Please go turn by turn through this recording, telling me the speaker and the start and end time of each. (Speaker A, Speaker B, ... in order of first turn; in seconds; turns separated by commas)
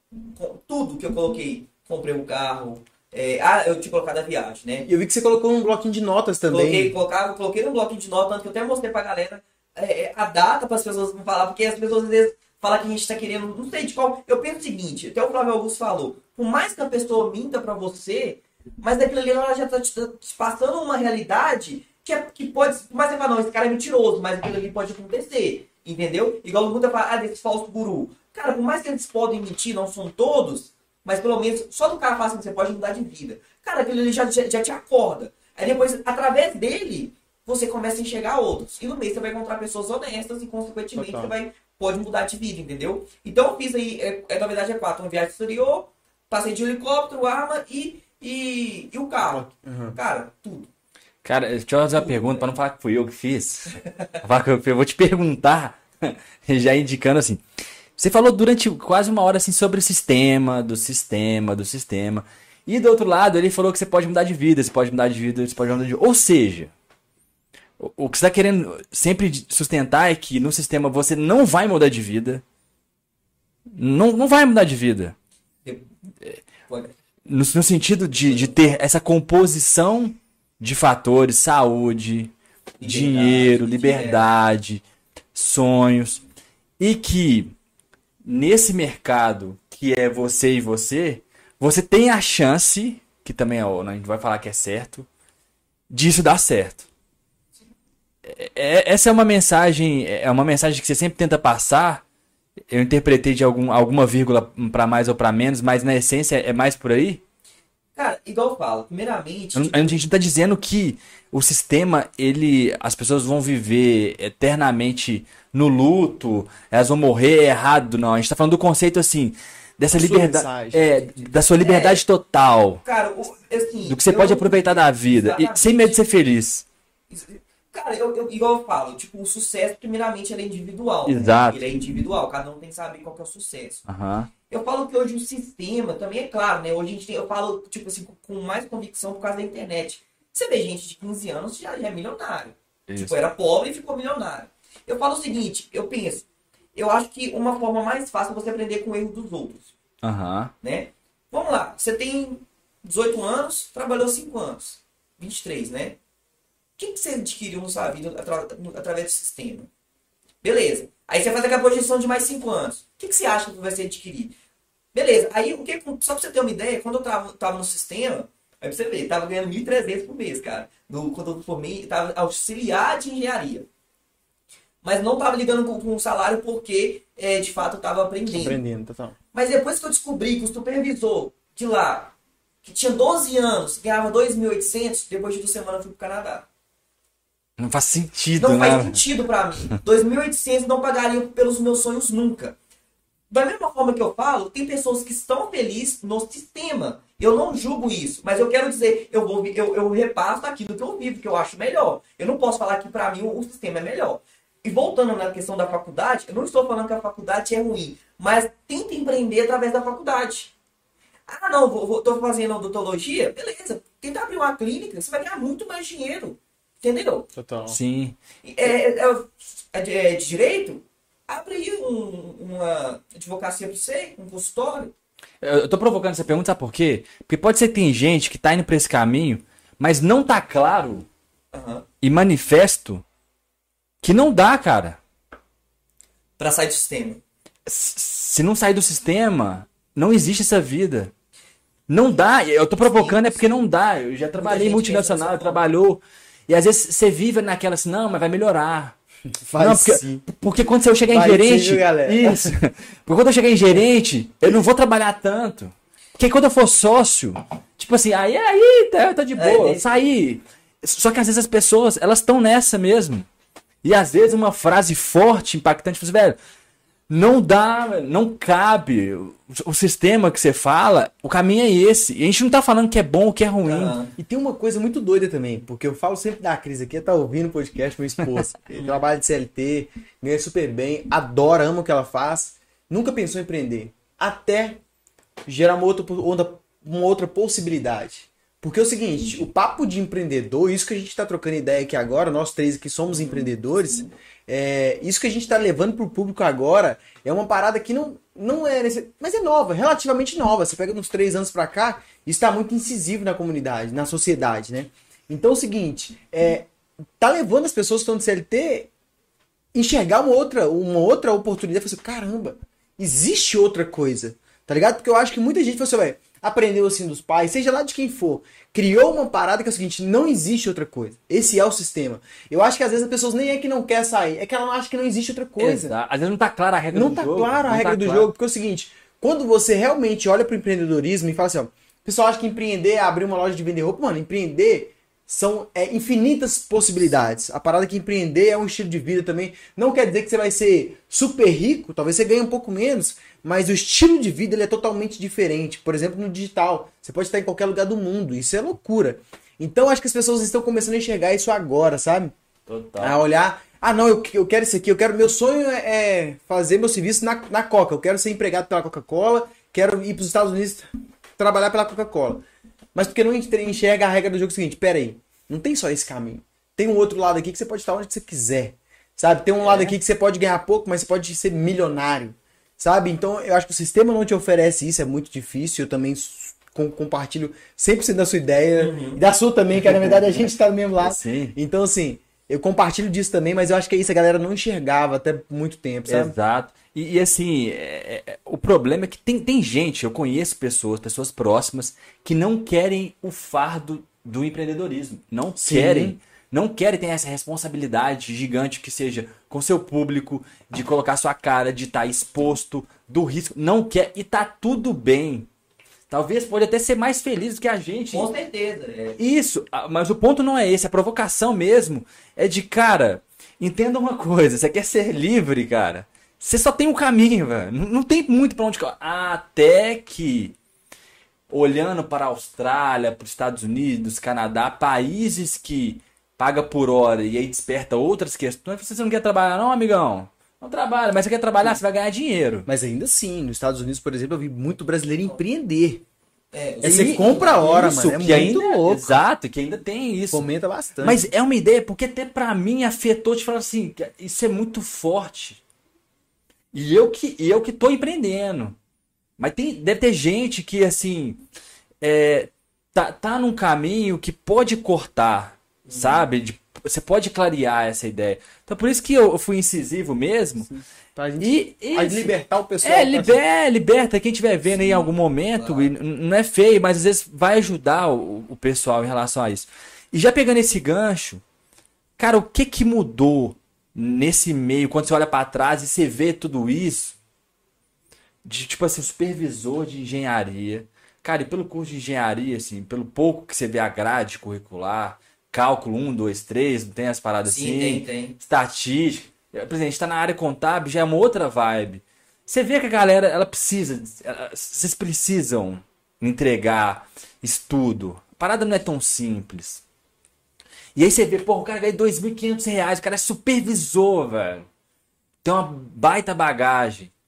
Speaker A: 0.3-4.9, Speaker B: 4.8-6.9, Speaker A: 6.5-50.7, Speaker B: 40.9-41.3, Speaker B: 49.2-50.0, Speaker C: 51.2-57.4, Speaker A: 51.9-52.4, Speaker A: 53.8-54.2, Speaker C: 58.0-66.7, Speaker C: 67.8-72.4, Speaker C: 73.7-75.1, Speaker A: 76.7-76.9, Speaker C: 77.2-84.8, Speaker A: 82.8-84.3, Speaker C: 85.3-86.2, Speaker C: 86.8-87.5, Speaker C: 88.2-95.1, Speaker C: 95.9-96.9, Speaker C: 98.2-102.0, Speaker C: 102.7-107.2, Speaker A: 108.0-110.0, Speaker C: 109.5-122.8, Speaker B: 119.9-121.0, Speaker A: 121.6-122.0, Speaker A: 122.8-126.0, Speaker C: 123.8-126.7, Speaker A: 127.1-133.8, Speaker C: 131.1-131.7, Speaker C: 133.8-134.3, Speaker A: 134.5-149.7, Speaker C: 142.9-143.2, Speaker C: 150.0-150.5, Speaker A: 150.6-156.0, Speaker A: 156.8-159.7, Speaker A: 160.4-164.3, Speaker A: 164.9-173.7, Speaker A: 174.8-178.6, Speaker B: 178.3-179.2, Speaker A: 179.3-186.4, Speaker C: 187.6-189.0, Speaker A: 188.4-192.6, Speaker A: 193.3-210.5, Speaker A: 211.3-217.3, Speaker B: 217.3-217.8, Speaker C: 217.7-218.2, Speaker A: 218.4-224.9, Speaker C: 225.4-231.1, Speaker A: 231.5-231.8, Speaker C: 232.0-233.0, Speaker C: 234.0-235.0, Speaker A: 236.4-237.2, Speaker C: 237.7-241.1, Speaker C: 241.9-248.9, Speaker A: 242.8-243.6, Speaker A: 244.4-245.6, Speaker B: 249.4-250.2, Speaker C: 249.6-263.3, Speaker B: 251.1-252.6, Speaker A: 259.4-260.0, Speaker C: 263.8-266.4, Speaker C: 267.1-274.0, Speaker A: 273.6-274.1, Speaker B: 274.2-284.8, Speaker A: 278.7-279.0, Speaker B: 285.4-306.7, Speaker A: 293.1-294.1, Speaker B: 307.2-308.9, Speaker B: 309.7-325.9, Speaker C: 325.6-328.3, Speaker B: 326.9-352.3, Speaker C: 352.6-353.2, Speaker B: 353.0-362.4, Speaker B: 362.9-386.4, Speaker A: 369.6-369.9, Speaker A: 378.8-379.2, Speaker C: 381.0-381.5, Speaker C: 386.1-405.5, Speaker B: 395.6-396.1, Speaker C: 406.1-408.3, Speaker A: 408.1-409.2, Speaker C: 409.2-420.5, Speaker C: 421.5-432.7, Speaker B: 432.6-436.0, Speaker A: 436.5-438.0, Speaker B: 436.8-439.2, Speaker C: 436.8-440.5, Speaker B: 440.3-441.2, Speaker C: 441.0-445.6, Speaker C: 446.7-448.8, Speaker C: 449.4-451.4, Speaker C: 452.0-460.7, Speaker A: 455.9-456.3, Speaker B: 460.7-463.4, Speaker C: 461.4-471.4, Speaker A: 464.7-465.9, Speaker C: 472.2-477.2, Speaker C: 478.4-499.8, Speaker A: 487.4-488.4, Speaker C: 500.9-504.6, Speaker C: 505.4-507.1